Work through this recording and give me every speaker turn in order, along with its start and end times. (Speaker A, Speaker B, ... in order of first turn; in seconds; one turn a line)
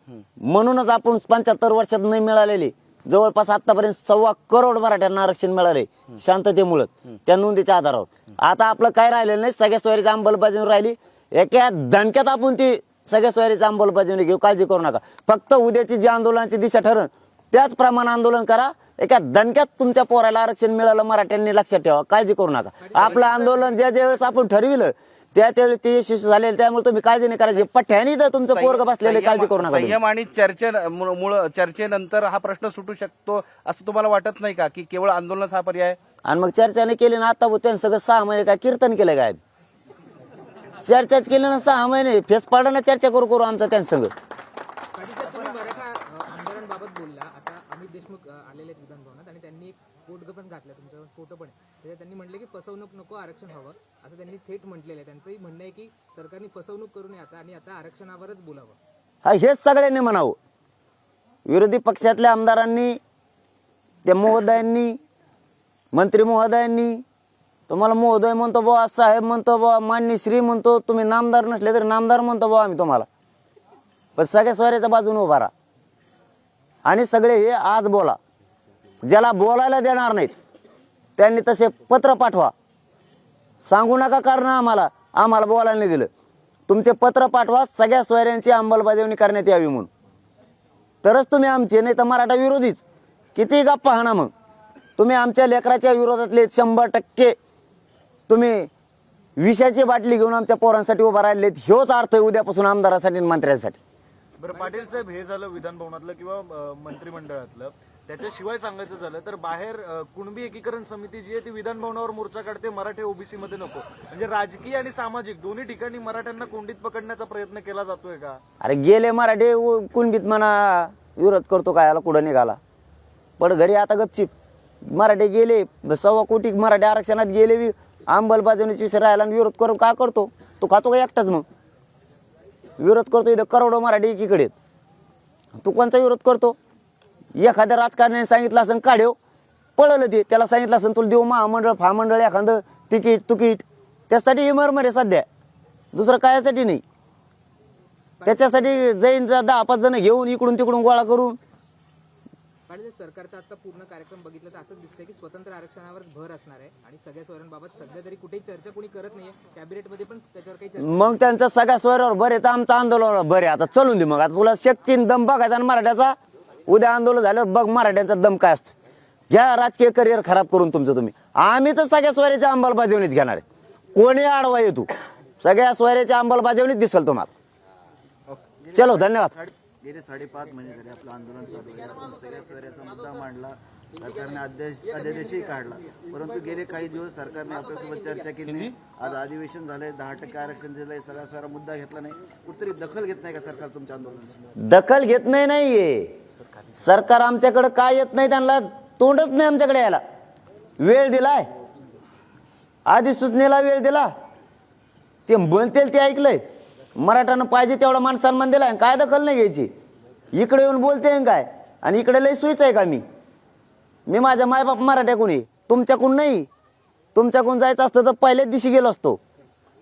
Speaker A: 0.4-30.0
Speaker B: 22.8-23.8
Speaker C: 28.4-36.0
Speaker A: 36.2-39.4
Speaker A: 40.8-44.1
Speaker B: 45.0-58.8
Speaker A: 59.2-60.4
Speaker A: 61.5-63.0
Speaker A: 64.1-65.0
Speaker A: 65.9-67.0
Speaker A: 67.7-73.1
Speaker A: 74.2-75.5
Speaker A: 76.8-78.2
Speaker A: 79.0-80.3
Speaker A: 81.2-82.5
Speaker A: 83.7-86.1
Speaker A: 86.7-89.9
Speaker A: 91.0-92.8
Speaker A: 93.3-94.3
Speaker A: 95.0-97.4
Speaker A: 98.3-98.7
Speaker A: 99.4-103.8
Speaker D: 104.4-118.4
Speaker B: 104.5-105.1
Speaker A: 118.6-122.6
Speaker A: 123.4-124.3
Speaker A: 124.8-131.4
Speaker A: 132.8-134.5
Speaker A: 135.6-136.6
Speaker A: 137.4-139.2
Speaker A: 139.8-145.3
Speaker A: 145.9-146.8
Speaker B: 148.2-148.8
Speaker A: 148.3-151.4
Speaker B: 152.7-161.3
Speaker A: 160.8-166.2
Speaker A: 166.7-168.8
Speaker A: 169.3-173.4
Speaker A: 173.9-174.9
Speaker A: 175.4-177.3
Speaker E: 178.6-194.5
Speaker A: 178.8-179.3
Speaker A: 194.6-196.1
Speaker A: 196.8-200.0
Speaker A: 200.8-201.4
Speaker A: 202.9-204.1
Speaker A: 205.3-206.4
Speaker A: 207.0-209.7
Speaker A: 210.3-213.0
Speaker A: 214.1-216.5
Speaker A: 217.2-219.2